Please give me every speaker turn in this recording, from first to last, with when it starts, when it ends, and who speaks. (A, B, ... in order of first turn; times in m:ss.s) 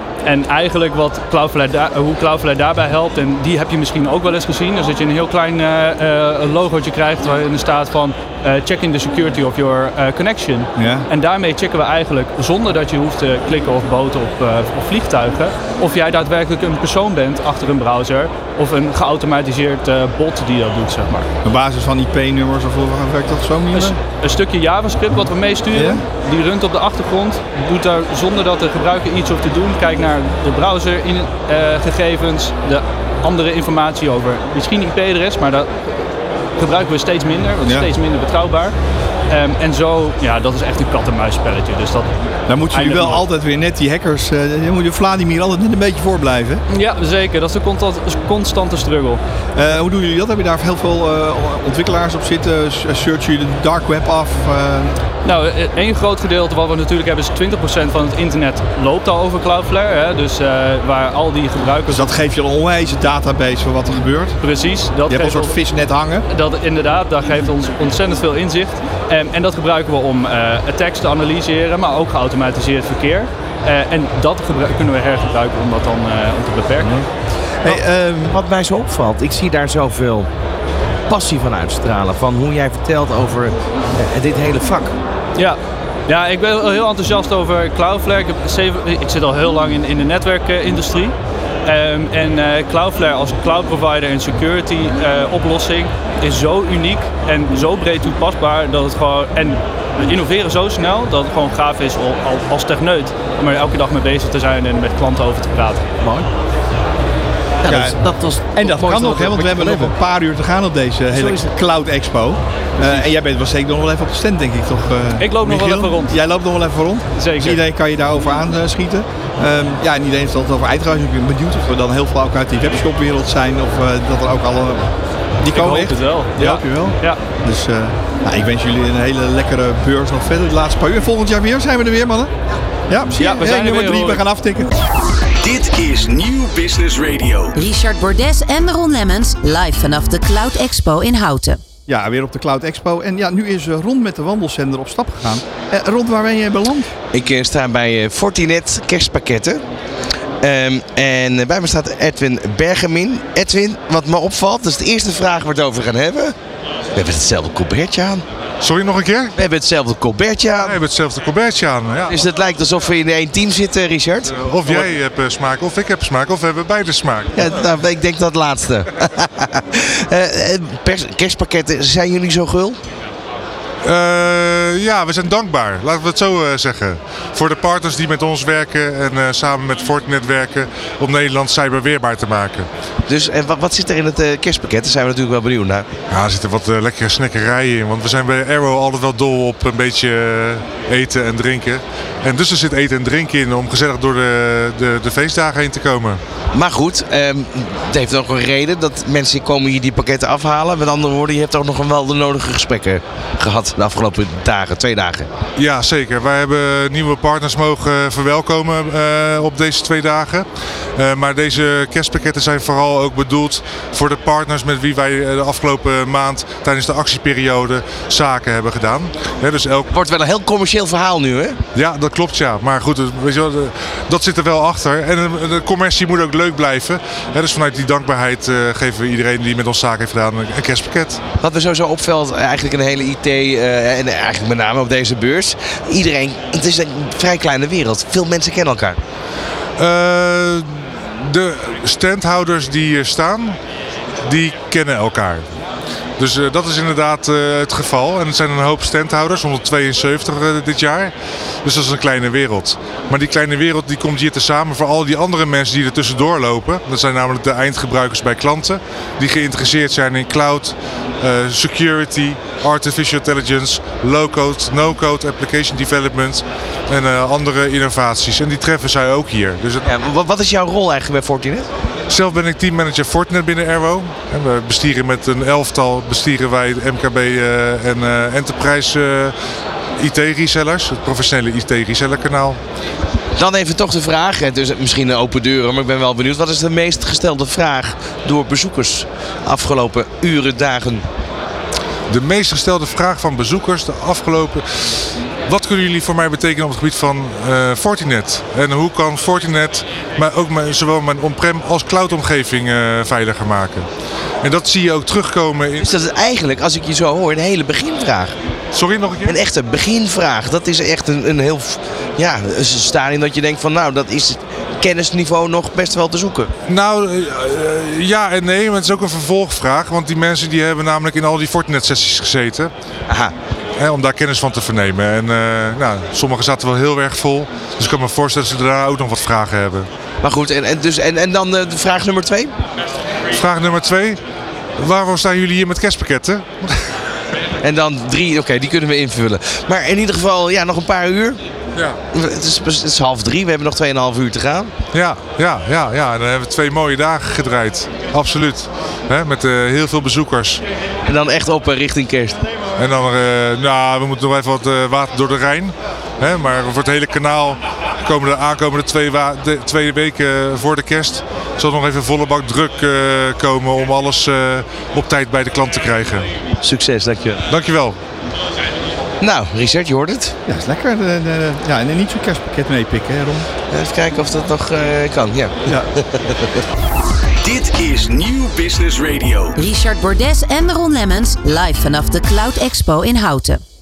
0:00.2-0:21.3 A
0:10.8-0:11.1 B
0:21.4-0:24.0 B
0:23.7-0:35.7 A
0:25.7-0:26.0 B
0:36.6-0:38.7 A
0:37.6-0:37.9 B
0:39.3-0:42.2 A
0:42.5-0:46.6 B
0:42.7-0:43.2 A
0:46.7-0:49.2 A
0:49.6-0:55.0 B
0:55.2-1:02.1 A
1:01.9-1:04.4 B
1:04.4-1:05.5 A
1:05.1-1:06.3 B
1:06.3-1:17.1 A
1:17.6-1:20.3 C
1:17.6-1:18.0 B
1:21.1-1:25.0 C
1:25.4-1:31.1 A
1:31.7-1:45.9 A
1:46.0-1:46.3 C
1:47.6-1:49.9 C
1:47.7-2:12.3 B
1:51.1-1:51.5 C
1:55.2-1:56.2 A
1:57.1-1:57.6 A
2:05.5-2:07.2 A
2:12.9-2:14.7 B
2:13.2-2:14.2 A
2:15.4-2:17.6 D
2:17.6-2:21.6 E
2:21.9-2:26.9 B
2:27.1-2:29.6 C
2:30.4-2:36.4 C
2:37.0-2:38.2 C
2:38.6-2:39.4 F
2:39.4-2:40.8 C
2:40.6-2:42.2 F
2:42.1-2:44.9 C
2:44.3-2:47.6 F
2:47.3-2:52.8 C
2:53.8-3:02.7 F
3:03.1-3:05.9 C
3:06.1-3:16.2 F
3:16.5-3:25.3 C
3:25.6-3:39.9 F
3:39.9-3:41.6 C
3:41.8-3:51.2 F
3:51.4-3:59.0 C
3:59.8-4:03.6 F
4:04.2-4:05.5 F
4:06.2-4:29.9 F
4:29.8-4:31.7 C
4:32.1-4:39.4 F
4:40.0-4:42.6 F
4:43.4-4:51.0 C
4:52.1-5:03.9 F
5:04.4-5:05.9 F
5:05.8-5:08.3 C
5:08.7-5:09.4 F
5:09.3-5:16.5 C
5:16.7-5:22.7 F
5:23.1-5:23.3 C
5:23.8-5:29.9 F
5:30.2-5:32.5 C
5:33.3-5:34.2 F
5:34.8-5:36.9 F
5:37.6-5:41.4 C
5:42.1-5:44.7 C
5:44.9-5:50.6 F
5:51.0-5:52.4 C
5:52.8-6:06.3 F
6:06.6-6:07.4 C
6:07.5-6:08.0 F
6:09.2-6:10.4 C
6:10.5-6:13.5 B
6:13.7-6:16.6 C
6:15.7-6:15.9 B
6:17.4-6:19.6 D
6:19.6-6:23.6 E